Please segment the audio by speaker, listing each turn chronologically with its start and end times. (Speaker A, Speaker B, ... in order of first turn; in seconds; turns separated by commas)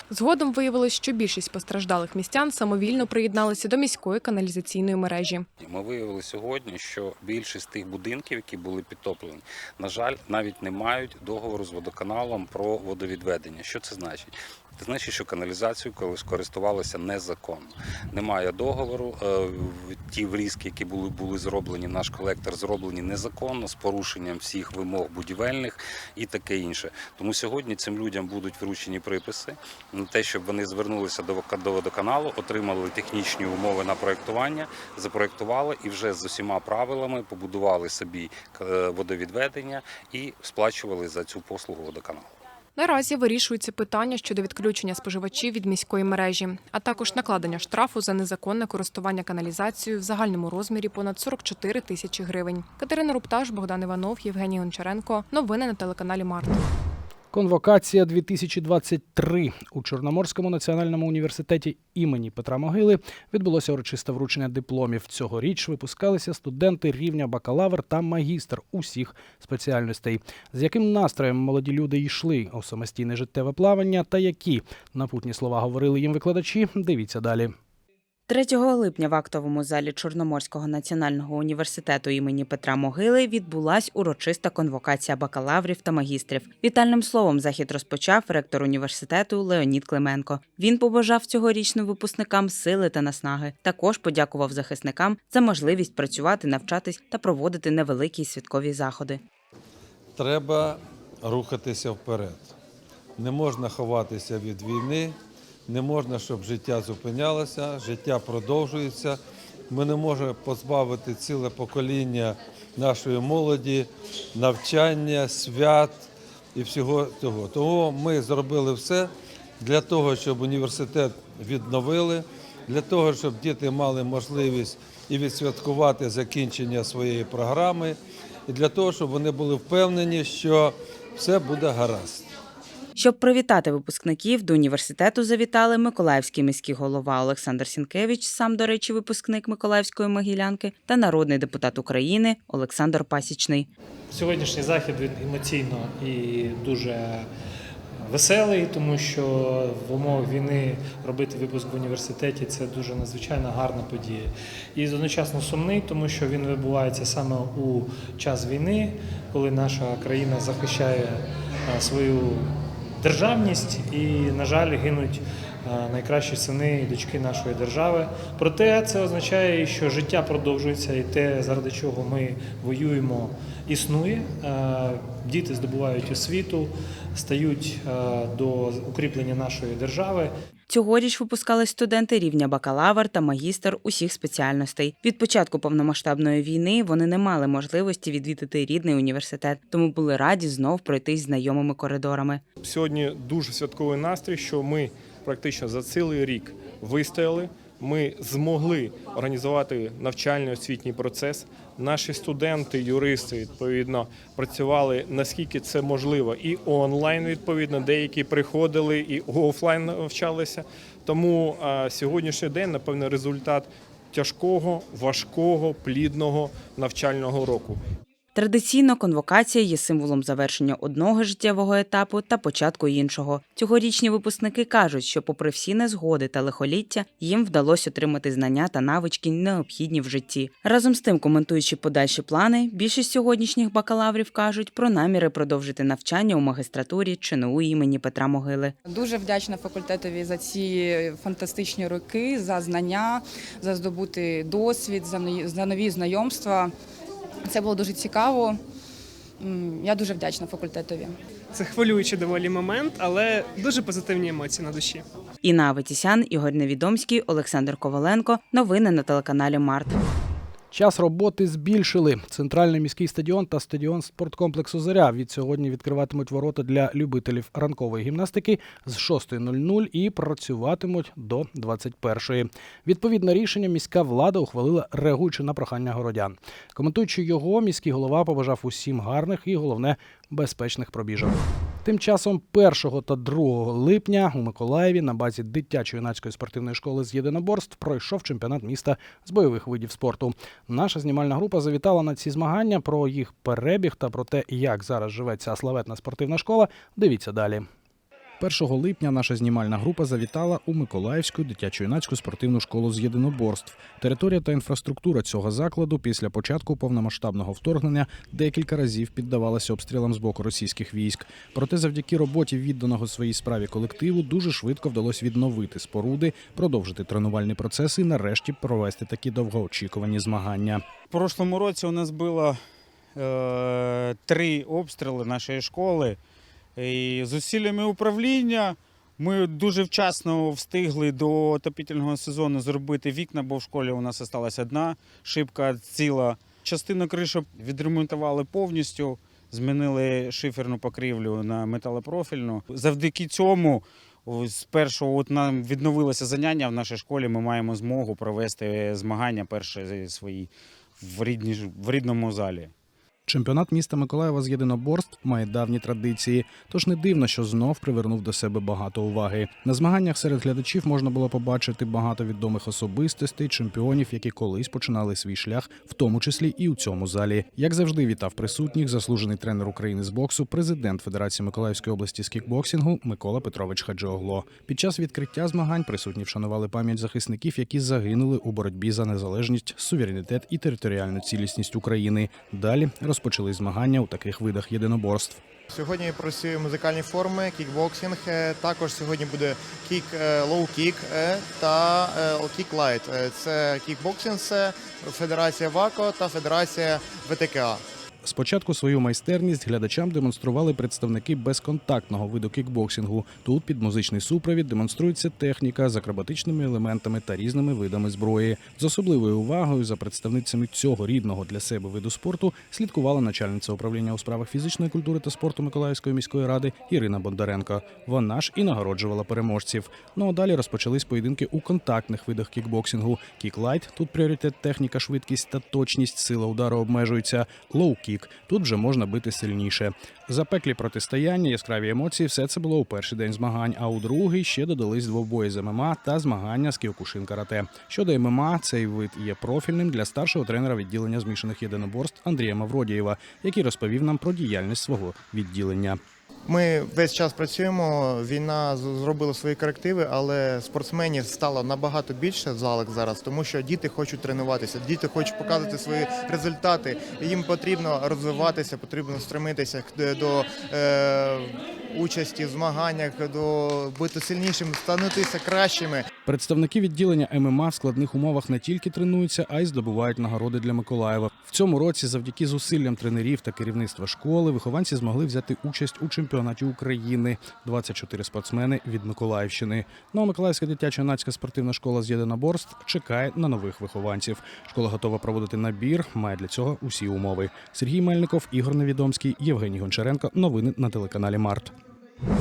Speaker A: 0.1-5.5, Speaker B: 5.6-42.3, Speaker A: 42.8-56.6, Speaker C: 57.3-77.5, Speaker D: 78.3-99.2, Speaker E: 100.2-102.5, Speaker E: 103.2-109.2, Speaker E: 109.7-132.2, Speaker D: 133.0-143.7, Speaker F: 144.1-147.3, Speaker F: 148.0-162.5, Speaker F: 163.0-180.3, Speaker D: 180.7-192.4, Speaker G: 192.6-217.8, Speaker D: 218.3-238.7, Speaker H: 238.8-246.7, Speaker H: 247.5-248.6, Speaker H: 249.4-251.2, Speaker I: 251.5-255.1, Speaker D: 255.4-259.9, Speaker C: 260.7-297.6, Speaker C: 298.4-320.8, Speaker J: 321.1-322.6, Speaker J: 323.1-326.2, Speaker J: 326.8-352.7, Speaker C: 353.2-385.4, Speaker K: 385.7-397.8, Speaker C: 398.2-446.0, Speaker K: 446.4-466.1, Speaker C: 466.2-491.7